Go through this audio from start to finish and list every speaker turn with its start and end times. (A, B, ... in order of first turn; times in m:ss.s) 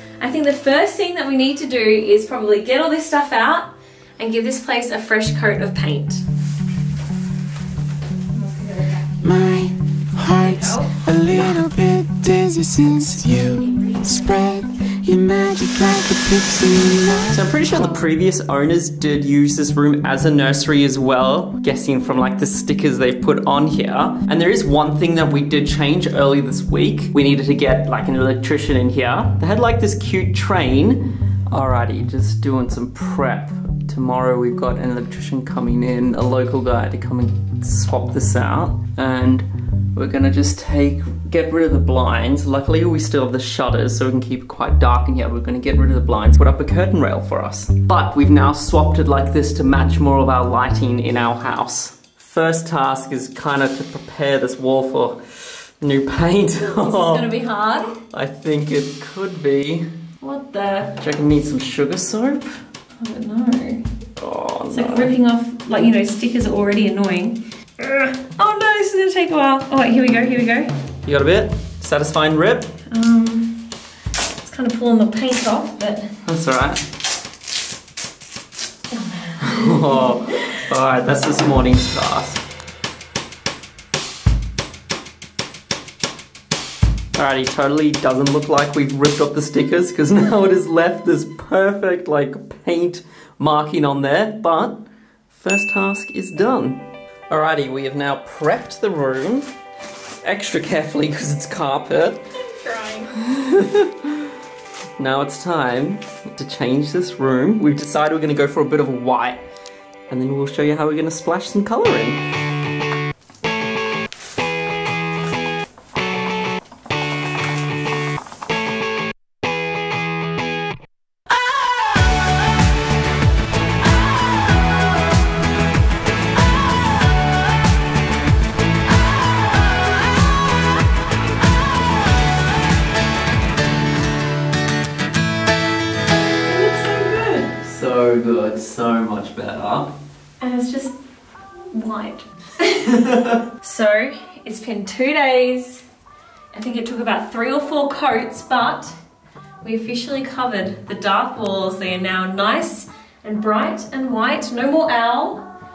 0:00.2-0:06.2 A
0:08.3-0:09.5 A
0:09.2-0:17.4 B
0:10.3-0:11.0 A
0:11.3-0:11.6 C
0:13.3-0:14.3 A
0:17.3-0:57.3 C
0:56.6-0:58.0 A
0:58.0-0:59.9 C
1:00.2-1:01.0 A
1:01.0-1:02.6 C
1:03.0-1:03.8 A
1:04.2-1:05.1 C
1:04.7-1:10.7 A
1:11.0-1:12.7 C
1:12.9-1:13.7 A
1:14.4-1:16.2 A
1:16.2-1:16.8 C
1:18.9-1:20.5 A
1:19.4-1:22.4 C
1:27.1-1:39.5 C
1:40.2-1:42.2 C
1:42.4-1:43.1 A
1:43.2-1:44.1 C
1:45.0-1:49.4 C
1:50.1-1:52.2 C
2:16.4-2:17.5 A
2:17.6-2:19.9 C
2:20.4-2:21.0 A
2:21.7-2:23.0 A
2:22.9-2:23.4 C
2:23.6-2:25.8 A
2:26.5-2:28.9 A
2:29.6-2:35.5 A